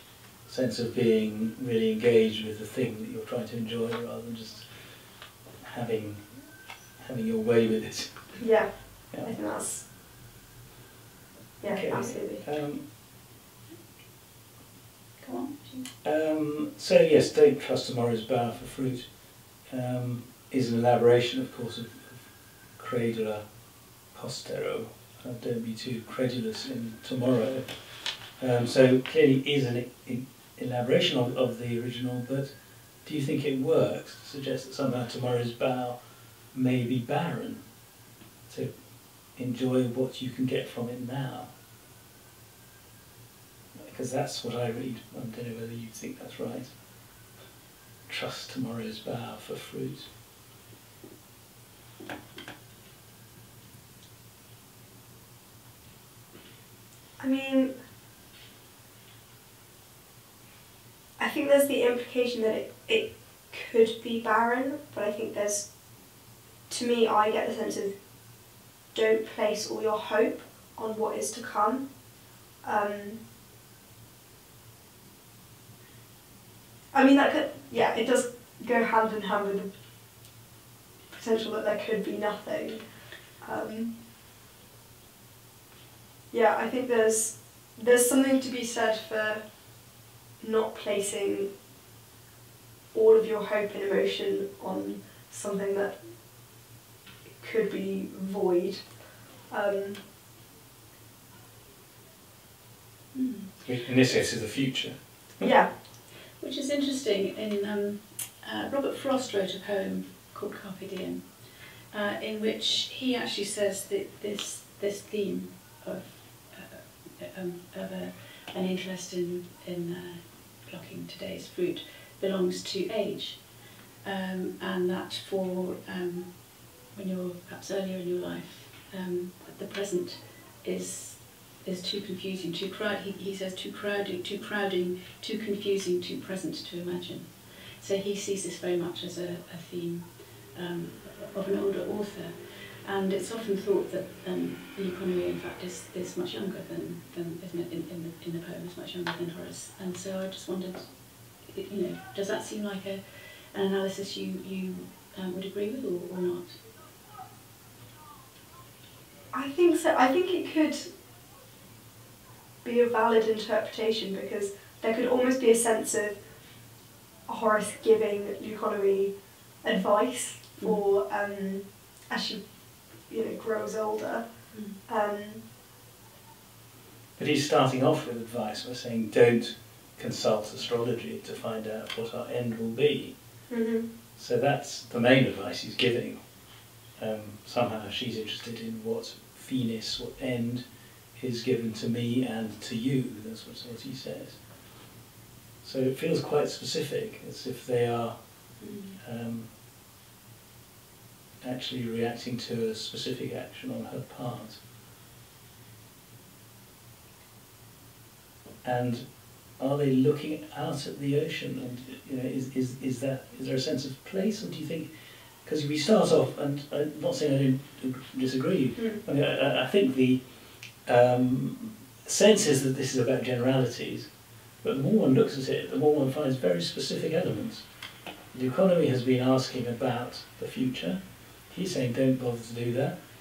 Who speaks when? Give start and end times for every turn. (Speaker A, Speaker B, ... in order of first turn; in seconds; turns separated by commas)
Speaker A: 0.5-4.7, Speaker A: 5.6-6.2, Speaker A: 7.0-8.1, Speaker B: 8.4-9.8, Speaker A: 9.1-9.4, Speaker B: 11.6-12.4, Speaker A: 11.7-12.8, Speaker C: 15.2-15.9, Speaker A: 16.0-19.1, Speaker A: 19.7-22.2, Speaker A: 22.8-23.4, Speaker A: 24.1-27.8, Speaker A: 28.4-32.5, Speaker A: 33.0-36.0, Speaker A: 36.5-37.6, Speaker A: 39.3-41.5, Speaker A: 43.7-46.7, Speaker A: 48.1-50.1, Speaker B: 57.2-57.7, Speaker B: 61.2-65.7, Speaker B: 66.7-67.9, Speaker B: 68.9-71.9, Speaker B: 72.6-73.2, Speaker B: 76.9-79.7, Speaker B: 81.1-82.8, Speaker B: 83.4-84.0, Speaker B: 86.3-89.4, Speaker B: 90.4-91.5, Speaker B: 92.9-96.0, Speaker B: 97.4-98.8, Speaker B: 99.5-100.0, Speaker C: 103.1-103.5, Speaker A: 103.6-105.5, Speaker B: 105.4-105.7, Speaker C: 106.4-111.3, Speaker C: 111.9-123.5, Speaker C: 124.0-156.6, Speaker B: 159.3-160.9, Speaker B: 162.6-166.2, Speaker B: 167.3-172.4, Speaker B: 173.1-174.2, Speaker C: 174.5-174.8, Speaker B: 174.8-175.4, Speaker A: 177.2-183.2, Speaker B: 183.5-183.9, Speaker A: 184.2-186.2, Speaker A: 187.0-190.6, Speaker A: 191.2-194.4, Speaker A: 195.6-198.1, Speaker C: 198.6-199.0, Speaker A: 199.0-199.5, Speaker A: 201.4-204.6, Speaker A: 208.6-209.1, Speaker A: 209.6-214.9, Speaker A: 215.4-220.2, Speaker A: 220.8-224.1, Speaker A: 224.6-227.6, Speaker A: 228.3-233.0